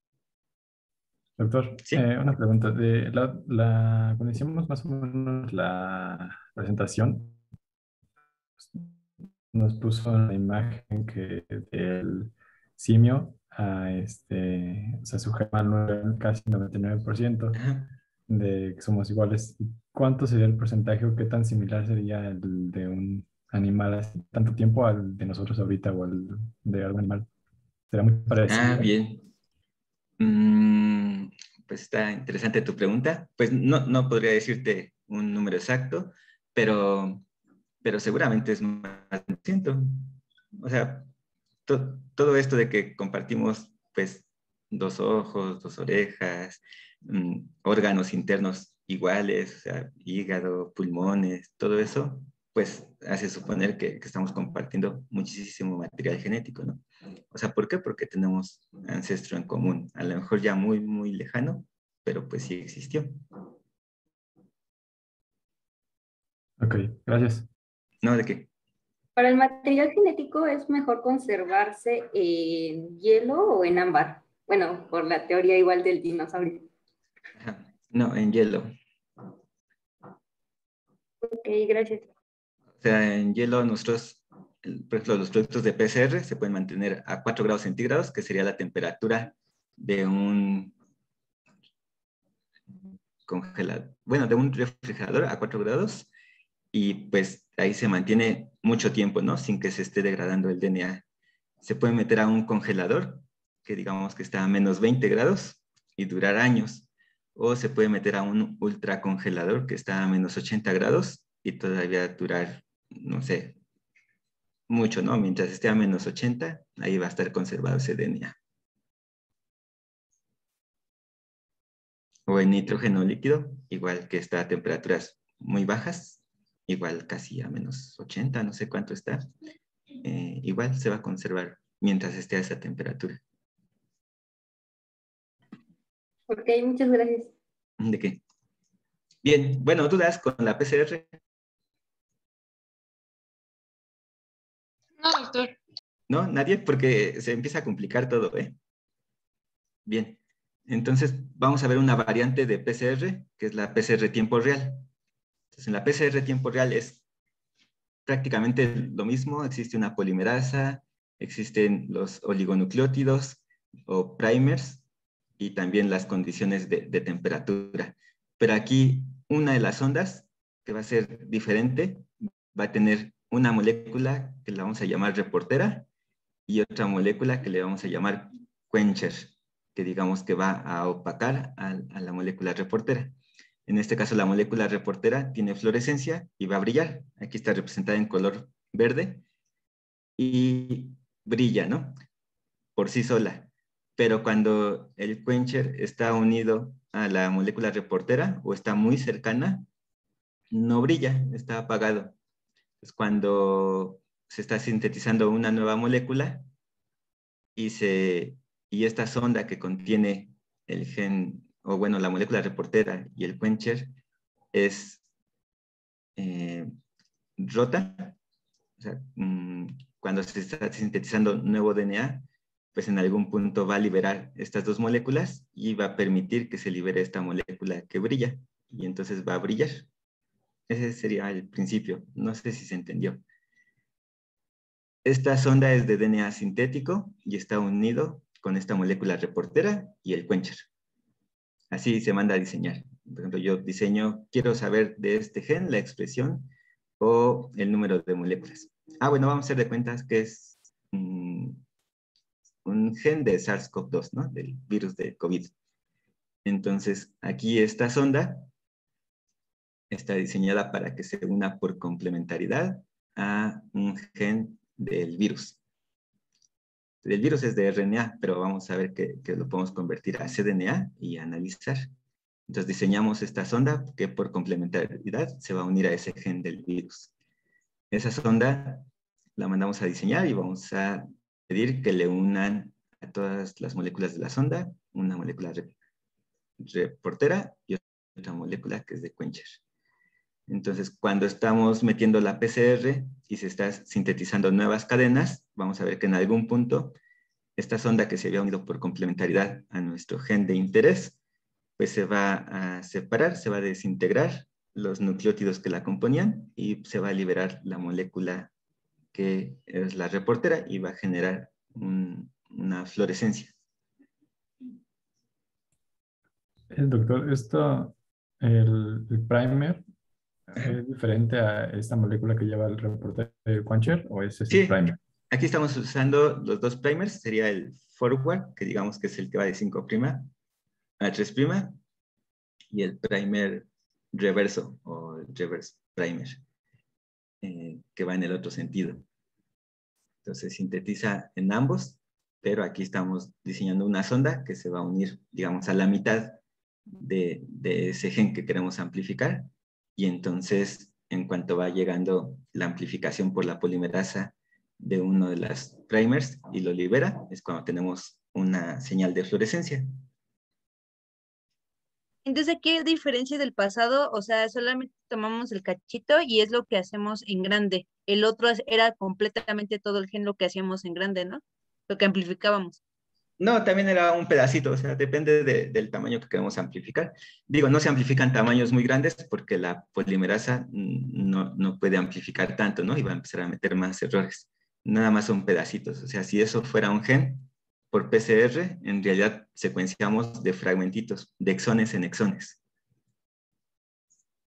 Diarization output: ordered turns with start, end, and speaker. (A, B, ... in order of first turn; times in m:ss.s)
0:01.4-0:07.4 A
0:09.5-0:17.6 A
0:17.6-0:17.9 B
0:18.3-0:27.3 A
0:27.9-0:28.9 A
0:28.5-0:29.3 B
0:30.2-0:37.2 B
0:37.8-0:41.1 B
0:41.7-1:03.2 B
1:06.6-1:07.5 A
1:08.0-1:08.5 B
1:09.2-1:16.7 C
1:17.4-1:18.7 B
1:21.2-1:22.1 C
1:22.8-1:30.8 B
1:33.3-1:36.1 B
1:36.7-1:41.0 B
1:41.6-1:53.6 B
1:54.7-1:58.4 B
2:02.3-2:09.2 B
2:10.0-2:13.2 B
2:16.3-2:17.3 C
2:17.8-2:18.2 B
2:19.2-2:21.1 B
2:26.1-2:28.6 B
2:29.9-2:34.9 B
2:35.5-2:37.0 B
2:38.1-2:44.8 B
2:45.4-2:55.9 B
2:56.5-3:03.1 B
3:03.7-3:09.2 B
3:10.2-3:12.0 B
3:12.8-3:19.7 B
3:20.5-3:22.2 B
3:22.8-3:26.4 B
3:27.6-3:33.9 B
3:34.5-3:35.0 B
3:36.2-3:36.7 B
3:37.4-3:38.2 B
3:38.8-3:49.9 B
3:50.7-3:53.2 B
3:55.0-4:00.7 B
4:01.7-4:11.6 B
4:12.6-4:15.5 B
4:16.4-4:18.5 B
4:19.9-4:25.6 B
4:27.0-4:31.9 B
4:32.5-4:37.1 B
4:37.9-4:38.9 B
4:39.4-4:45.7 B
4:46.6-4:49.6 B
4:50.5-4:57.0 B
4:57.6-5:01.2 B
5:01.8-5:08.5 B
5:09.1-5:13.5 B
5:16.7-5:19.8 A
5:20.5-5:25.0 A
5:24.5-5:24.8 B
5:25.3-5:30.3 B
5:31.0-5:31.8 B
5:32.7-5:36.4 B
5:37.4-5:39.0 B
5:40.2-5:46.4 B
5:47.0-5:59.9 B
6:02.2-6:12.8 D
6:13.4-6:32.6 B